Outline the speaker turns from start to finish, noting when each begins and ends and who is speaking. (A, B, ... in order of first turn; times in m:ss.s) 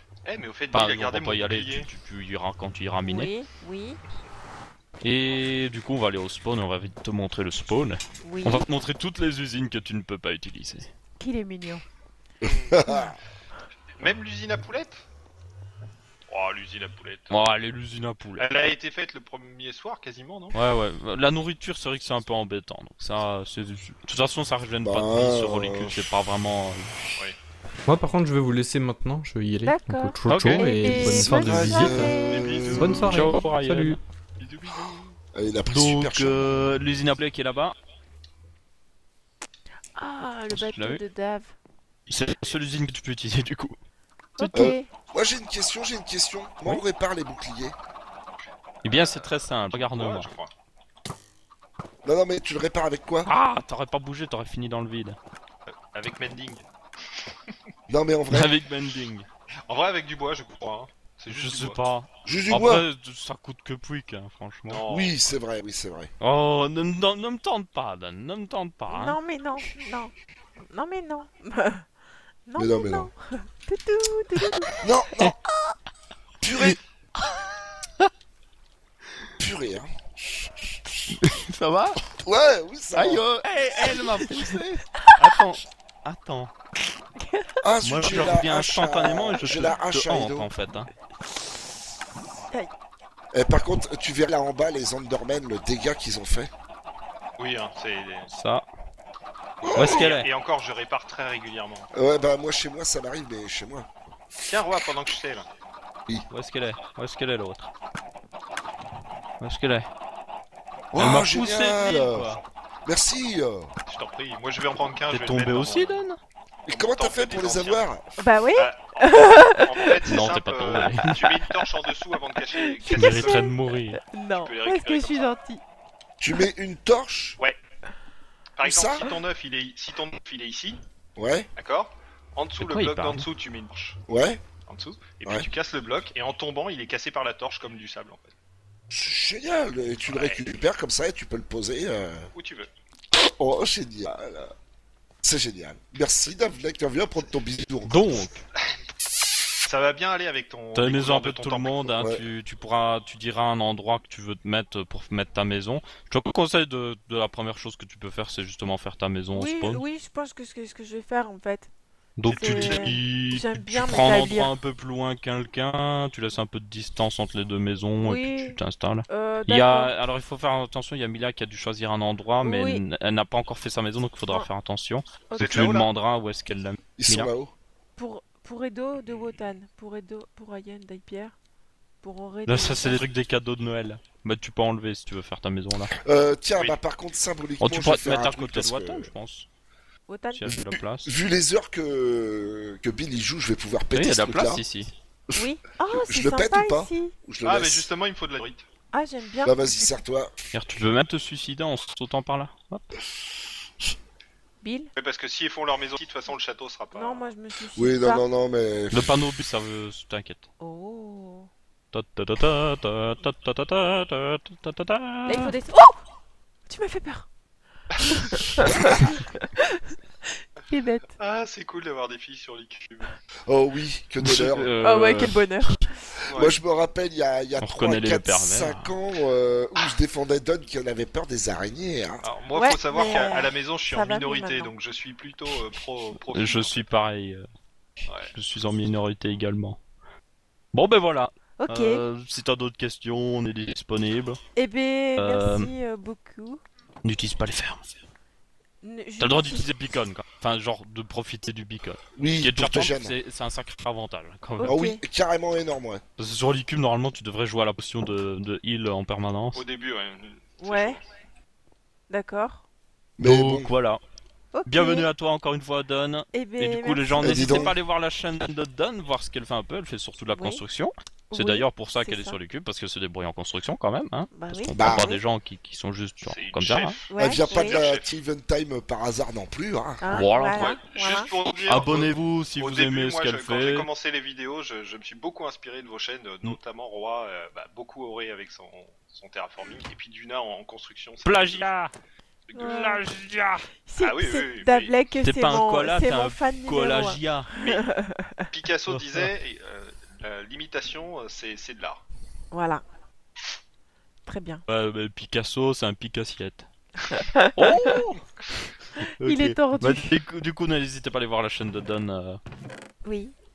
0:00.2-0:01.9 A
0:00.7-0:03.3 B
0:03.0-0:04.0 C
0:05.0-0:10.9 B
0:08.2-0:08.6 C
0:11.2-0:11.8 C
0:12.4-0:12.9 A
0:12.4-0:13.2 D
0:14.0-0:15.0 A
0:16.3-0:17.6 A
0:17.3-0:18.6 B
0:18.4-0:20.6 A
0:20.5-0:26.9 B
0:24.8-0:26.0 D
0:27.8-0:32.2 E
0:29.6-0:32.6 C
0:30.2-0:31.3 B
0:31.3-0:33.1 D
0:32.2-0:33.2 A
0:32.7-0:34.0 E
0:32.8-0:34.0 B
0:34.4-0:35.2 A
0:35.3-0:36.4 D
0:35.7-0:37.8 B
0:40.0-0:41.5 C
0:40.5-0:41.0 B
0:42.1-0:43.8 B
0:44.4-0:44.9 C
0:44.5-0:47.8 D
0:48.8-0:50.3 B
0:48.9-0:50.5 A
0:52.0-0:53.3 D
0:53.3-0:55.2 B
0:55.7-0:56.6 A
0:57.2-0:57.5 A
0:57.9-0:58.5 D
0:58.3-0:59.3 B
0:59.7-1:01.8 A
1:01.3-1:04.8 B
1:02.2-1:02.8 D
1:04.7-1:05.4 A
1:04.8-1:06.1 D
1:06.2-1:09.2 B
1:08.9-1:11.9 C
1:12.4-1:14.8 C
1:12.6-1:13.1 D
1:14.8-1:15.4 D
1:16.4-1:16.8 D
1:19.4-1:19.9 D
1:21.2-1:22.0 B
1:22.2-1:23.2 D
1:22.9-1:26.5 B
1:23.8-1:25.2 C
1:27.2-1:27.6 C
1:27.6-1:30.5 D
1:27.8-1:30.9 B
1:33.3-1:36.5 D
1:37.4-1:38.3 A
1:38.3-1:38.6 B
1:39.6-1:40.1 D
1:39.6-1:41.9 A
1:39.7-1:40.3 B
1:41.9-1:43.9 D
1:44.5-1:45.5 A
1:46.3-1:47.7 B
1:49.4-1:49.9 B
1:50.9-1:53.7 D
1:51.0-1:52.4 B
1:52.1-1:52.4 A
1:53.9-1:56.0 A
1:55.1-1:56.2 B
1:56.7-1:58.0 D
1:56.7-1:57.9 A
1:58.2-2:00.0 C
1:58.6-2:03.5 A
2:00.0-2:01.4 B
2:02.5-2:05.6 C
2:02.9-2:04.0 B
2:04.4-2:05.3 A
2:06.2-2:07.4 D
2:08.6-2:10.8 A
2:08.6-2:09.1 D
2:11.2-2:11.5 D
2:11.6-2:14.0 A
2:12.6-2:13.3 B
2:14.1-2:14.4 D
2:14.7-2:18.3 A
2:18.9-2:22.3 D
2:20.1-2:20.4 A
2:22.3-2:22.7 A
2:23.1-2:24.5 D
2:25.2-2:28.2 D
2:27.9-2:28.4 B
2:29.6-2:31.9 A
2:30.7-2:39.8 B
2:32.0-2:32.2 D
2:39.3-2:41.7 C
2:42.2-2:57.3 B
2:42.2-2:43.0 A
2:42.3-2:44.5 C
2:48.0-2:48.6 C
2:49.1-2:49.9 C
2:52.4-2:52.8 C
2:55.3-2:55.7 C
2:55.3-2:55.9 A
2:57.0-2:57.5 D
2:58.0-3:01.3 C
2:59.1-2:59.4 A
3:02.0-3:03.0 C
3:02.4-3:05.9 B
3:06.0-3:09.1 D
3:07.6-3:09.5 B
3:10.1-3:10.4 C
3:10.4-3:11.1 B
3:10.5-3:14.6 D
3:13.9-3:14.9 B
3:15.3-3:17.9 D
3:15.3-3:17.1 C
3:17.4-3:18.7 A
3:18.9-3:19.5 C
3:19.4-3:20.3 D
3:20.5-3:22.9 B
3:24.6-3:24.9 C
3:25.0-3:27.3 A
3:26.9-3:28.2 C
3:27.8-3:29.1 D
3:28.9-3:30.5 B
3:30.6-3:31.5 C
3:31.9-3:35.5 B
3:35.2-3:36.0 C
3:36.7-3:37.3 C
3:38.1-3:39.8 C
3:40.6-3:41.2 C
3:41.2-3:43.1 A
3:43.5-3:44.7 D
3:44.2-3:45.4 B
3:44.8-3:45.9 C
3:46.3-3:46.6 A
3:46.3-3:52.2 D
3:47.6-3:48.9 B
3:52.2-3:56.8 A
3:52.5-3:54.7 C
3:56.2-3:57.4 B
3:58.1-3:58.3 A
3:58.3-3:59.8 B
4:00.7-4:04.4 B
4:01.6-4:02.0 C
4:04.6-4:06.6 C
4:05.2-4:05.7 B
4:07.0-4:07.9 B
4:08.8-4:09.6 C
4:09.2-4:14.8 B
4:12.2-4:13.2 D
4:14.6-4:15.0 C
4:14.6-4:16.0 D
4:16.2-4:19.6 B
4:19.5-4:21.0 A
4:20.6-4:21.0 C
4:22.1-4:22.6 C
4:23.2-4:23.7 D
4:23.2-4:24.0 B
4:24.5-4:25.0 C
4:24.7-4:37.0 B
4:26.3-4:27.7 C
4:27.2-4:27.8 D
4:30.3-4:30.6 C
4:31.3-4:32.4 C
4:34.3-4:35.0 C
4:34.7-4:35.2 D
4:36.2-4:38.1 A
4:37.1-4:37.9 C
4:37.2-4:40.2 D
4:40.0-4:41.3 C
4:40.1-4:40.8 B
4:40.5-4:51.7 A
4:41.6-4:43.9 B
4:51.2-4:51.9 B
4:52.5-4:52.9 A
4:52.5-4:53.0 C
4:52.6-4:53.7 B
4:53.9-4:58.5 C
4:54.0-4:54.9 A
4:55.2-4:57.5 B
4:57.6-4:57.9 A
4:58.5-5:02.0 A
4:58.9-4:59.3 B
5:02.5-5:02.8 C
5:04.2-5:04.6 C
5:04.7-5:06.7 B
5:07.1-5:08.0 C
5:07.6-5:12.4 B
5:09.0-5:10.1 C
5:13.0-5:13.3 C